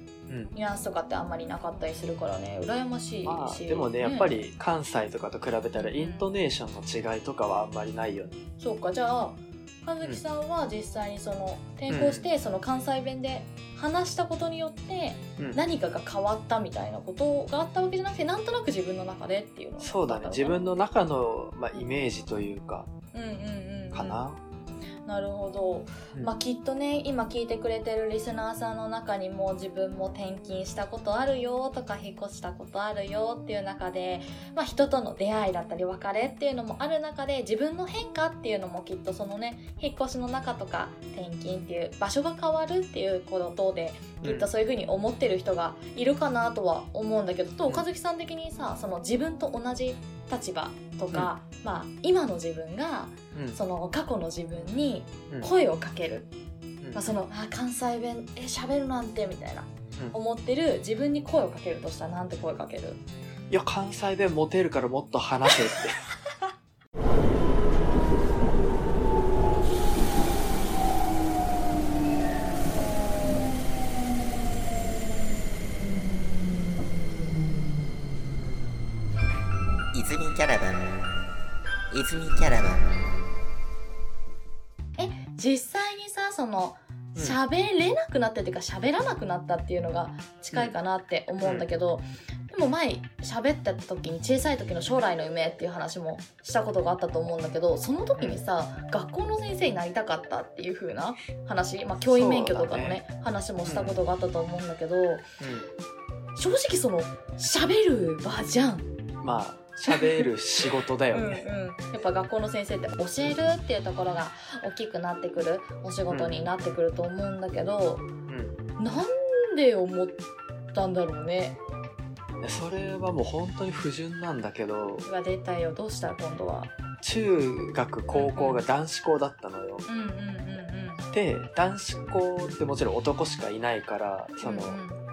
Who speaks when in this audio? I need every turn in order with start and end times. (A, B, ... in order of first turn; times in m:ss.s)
0:00.3-0:00.5 A
0:00.5-0:04.3 B
0:03.2-0:08.4 A
0:05.8-0:06.3 B
0:08.6-0:20.6 B
0:11.9-0:12.3 A
0:19.8-0:22.9 A
0:23.1-0:24.2 B
0:23.9-0:24.4 A
0:25.0-0:56.3 B
0:44.2-0:44.5 A
0:56.9-1:03.0 B
1:03.5-1:06.0 A
1:19.9-1:21.0 C
1:21.9-1:22.9 C
1:25.0-1:45.2 B
1:31.4-1:31.7 A
1:42.1-1:43.0 A
1:43.6-1:44.0 A
1:45.4-1:45.7 A
1:46.4-1:48.9 B
1:49.2-1:51.4 A
1:49.9-1:50.3 B
1:51.1-1:58.1 B
1:56.1-1:56.5 A
1:58.3-1:58.6 A
1:58.8-2:01.6 B
2:02.4-2:05.1 A
2:05.0-2:06.7 B
2:07.0-2:09.9 A
2:08.1-2:08.6 B
2:09.9-2:11.0 B
2:11.1-2:14.8 A
2:14.4-2:15.0 B